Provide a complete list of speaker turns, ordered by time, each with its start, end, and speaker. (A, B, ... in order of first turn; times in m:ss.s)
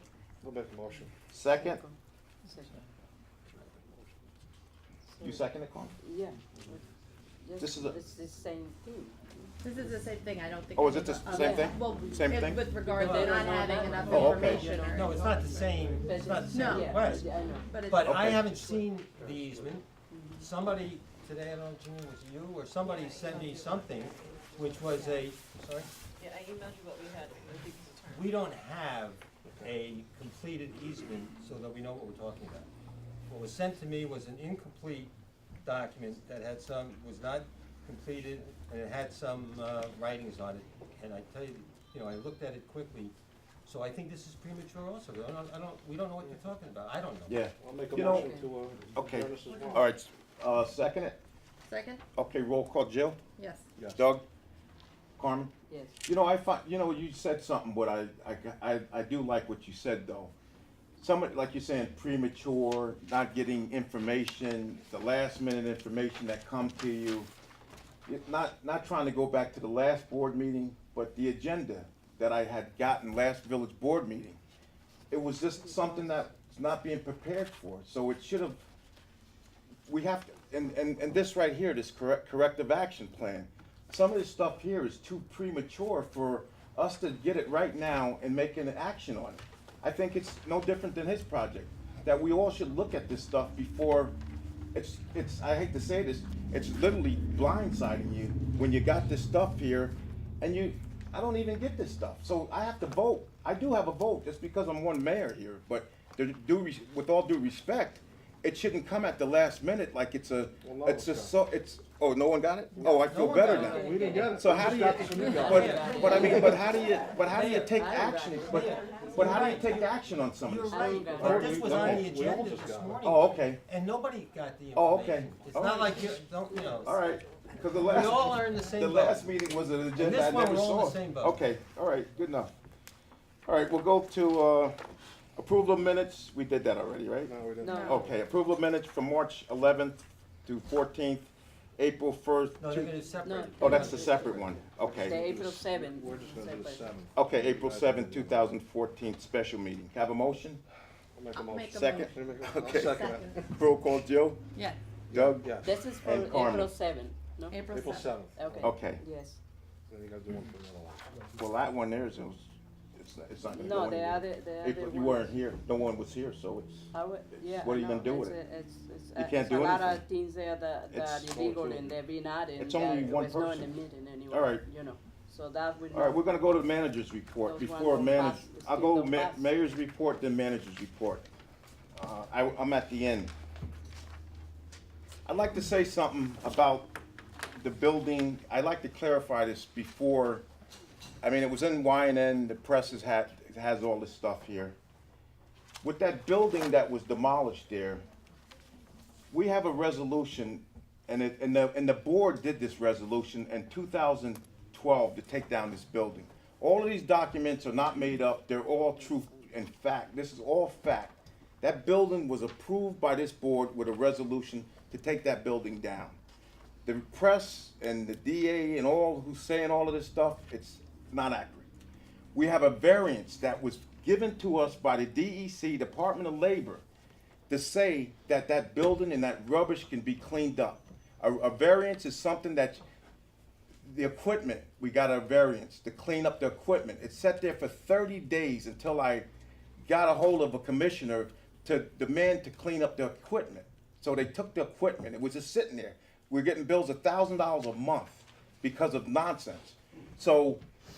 0:00.4-0:01.1 A
0:01.3-0:01.8 B
0:01.6-0:02.0 C
0:02.5-0:02.7 C
0:03.5-0:04.2 A
0:05.1-0:05.5 C
0:05.2-0:06.0 B
0:06.0-0:06.8 C
0:07.4-0:09.9 C
0:07.6-0:08.0 B
0:09.6-0:15.2 D
0:10.8-0:12.7 B
0:11.3-0:11.9 C
0:12.8-0:17.7 C
0:13.0-0:25.9 E
0:14.1-0:14.7 B
0:16.5-0:17.0 D
0:17.7-0:18.2 D
0:18.0-0:18.5 B
0:20.1-0:20.5 C
0:22.9-0:25.3 F
0:26.2-0:28.4 F
0:28.1-0:32.7 E
0:29.4-0:29.7 A
0:33.3-0:47.4 E
0:47.3-0:48.3 B
0:47.6-0:49.9 A
0:48.0-0:48.5 C
0:48.9-0:51.2 B
0:51.7-0:52.0 D
0:52.2-0:53.2 B
0:53.4-0:53.7 D
0:53.8-0:54.1 A
0:54.0-0:54.2 B
0:55.2-0:55.5 B
0:55.7-0:56.0 C
0:56.0-1:00.3 B
1:01.0-1:07.3 B
1:08.1-1:14.4 B
1:15.1-1:18.6 B
1:15.7-1:16.2 C
1:19.9-1:34.2 B
1:34.7-2:02.2 B
1:50.6-1:51.3 A
1:52.8-1:53.1 A
1:53.0-1:54.4 E
1:53.4-1:54.5 C
1:53.7-1:56.4 A
1:55.1-1:56.6 E
1:55.1-1:56.7 C
1:57.3-1:57.8 E
1:57.7-1:58.8 C
1:58.5-1:59.8 E
2:00.4-2:07.0 E
2:00.7-2:01.6 C
2:01.2-2:03.0 A
2:03.0-2:03.6 B
2:04.7-2:06.0 B
2:06.8-2:12.5 B
2:07.8-2:09.3 E
2:09.9-2:11.4 E
2:13.5-2:14.8 B
2:15.4-2:17.3 B
2:17.2-2:18.2 A
2:17.6-2:18.0 C
2:17.6-2:18.1 D
2:17.8-2:22.9 B
2:22.6-2:24.5 E
2:23.2-2:26.9 C
2:23.6-2:25.6 B
2:24.8-2:28.5 A
2:27.1-2:30.6 B
2:31.1-2:33.4 A
2:31.3-2:33.4 D
2:31.7-2:34.4 B
2:35.1-2:35.8 A
2:35.1-2:36.7 B
2:35.6-2:39.4 C
2:37.5-2:38.1 D
2:37.7-2:38.7 A
2:38.6-2:39.0 B
2:39.9-2:41.2 A
2:41.4-2:46.9 B
2:43.5-2:45.4 C
2:46.9-2:56.4 C
2:47.4-2:48.4 B
2:49.2-2:50.0 B
2:50.9-2:52.0 B
2:52.6-2:53.8 B
2:54.3-2:54.7 B
2:55.9-3:01.3 B
2:57.4-2:59.5 C
3:02.0-3:03.3 B
3:05.3-3:06.9 B
3:07.6-3:10.4 B
3:11.2-3:14.8 B
3:15.8-3:18.0 B
3:19.3-3:36.2 B
3:29.0-3:29.4 C
3:36.8-3:41.7 B
3:42.3-3:46.8 B
3:47.5-3:52.8 B
3:53.8-3:59.3 B
3:59.8-4:10.6 B